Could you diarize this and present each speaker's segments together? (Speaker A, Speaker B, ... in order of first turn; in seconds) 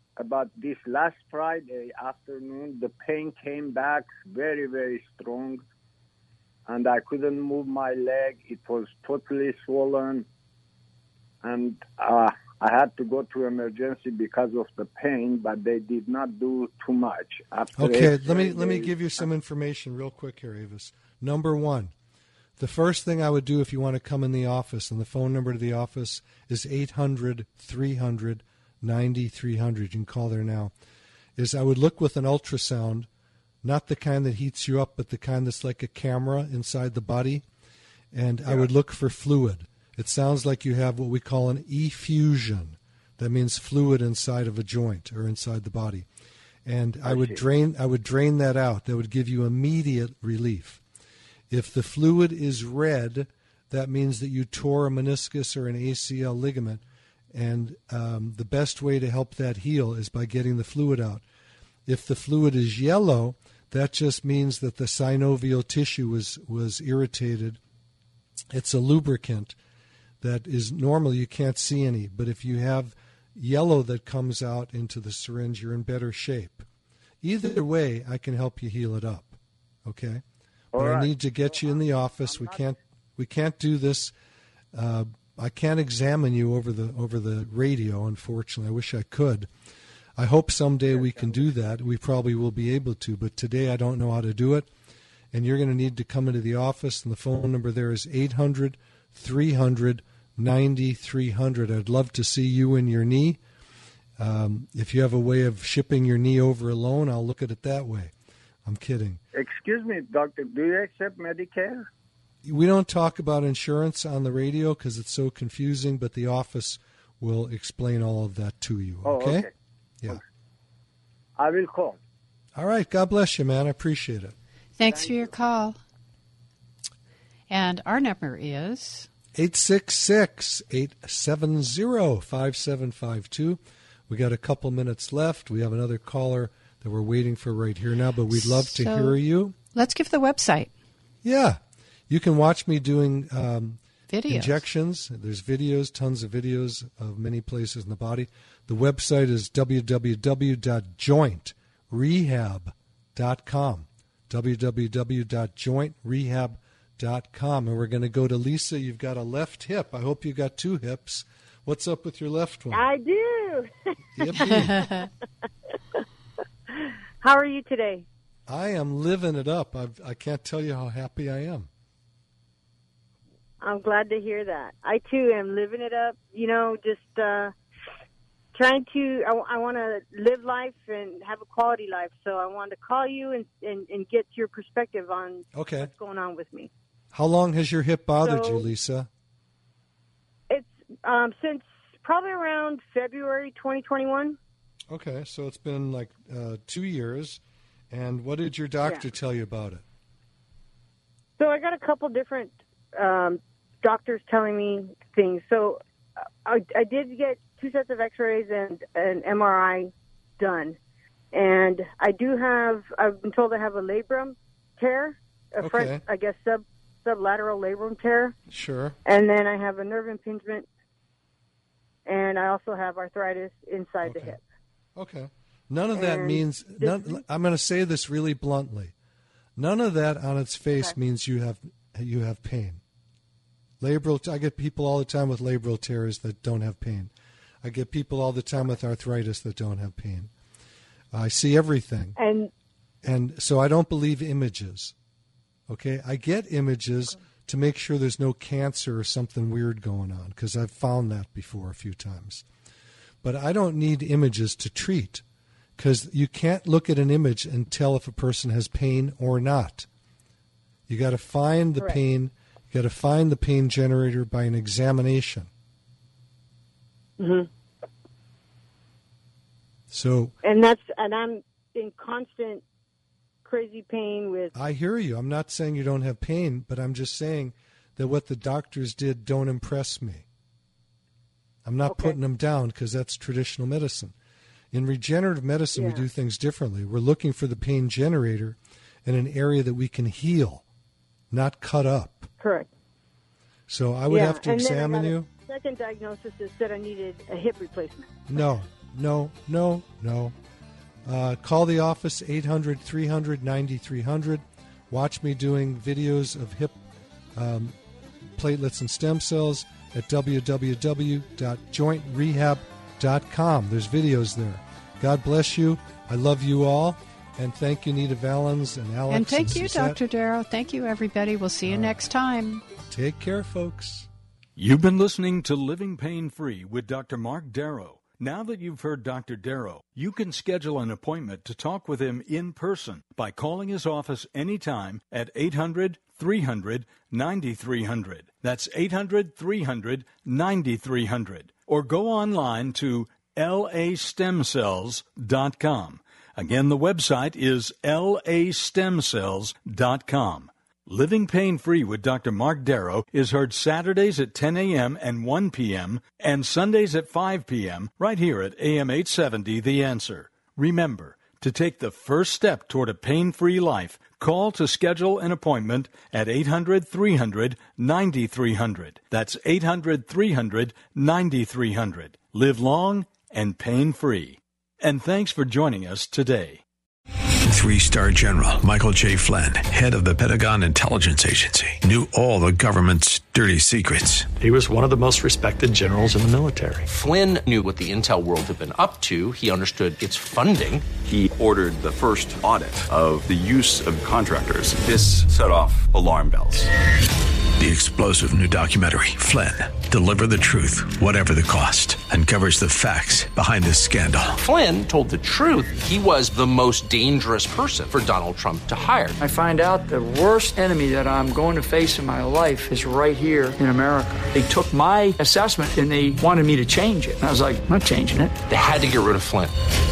Speaker A: 0.2-5.6, 6.7-10.2, 11.4-18.9, 47.1-47.4, 80.7-82.6, 109.3-111.9, 119.0-119.5, 121.4-122.0, 124.8-125.3
Speaker B: 17.8-21.9, 22.6-30.7, 31.4-33.1, 33.6-37.5, 38.1-46.0, 46.6-50.8, 51.5-61.2, 61.9-67.6, 68.5-69.6, 70.2-76.7, 77.2-80.2, 80.8-84.1, 84.7-89.5, 90.2-94.7, 95.3-103.4, 104.2-108.1, 108.6-109.2, 112.4-119.5, 122.5-124.3, 129.3-139.6, 141.2-162.8, 164.2-165.0, 168.5-171.7, 185.5-185.9, 187.1-189.1, 194.9-199.8, 215.6-216.0, 218.5-219.0, 224.0-224.4, 225.0-228.9, 229.6-232.8, 233.8-237.1, 237.6-240.3, 241.1-242.2, 243.0-244.9, 245.7-252.4, 253.2-255.2, 255.8-259.9, 260.9-265.5, 269.9-270.3, 274.5-280.2, 281.6-284.1, 284.7-290.6, 291.3-292.3, 293.7-295.3, 298.3-300.3, 301.1-306.8, 307.3-307.8, 308.4-320.0, 321.6-322.0, 322.9-324.1
Speaker C: 124.8-125.8, 127.5-129.1, 138.3-139.2, 139.7-140.7, 144.1-144.6, 319.1-322.6
Speaker D: 162.7-165.1, 166.7-168.1, 173.6-177.5, 178.5-186.7, 188.2-188.7, 190.5-194.4, 201.4-205.8, 206.4-210.8, 211.3-218.4, 219.0-220.7, 222.1-224.4, 225.9-227.2, 242.2-242.5, 267.2-267.5, 270.4-272.6, 273.4-274.5, 281.8-282.2, 285.7-286.1, 292.4-292.7, 294.1-298.2
Speaker E: 324.6-376.6
Speaker F: 377.5-384.3, 397.6-404.4
Speaker G: 384.4-386.9
Speaker H: 386.9-390.9, 404.4-409.2, 418.5-419.5
Speaker I: 391.0-396.7
Speaker J: 409.2-418.3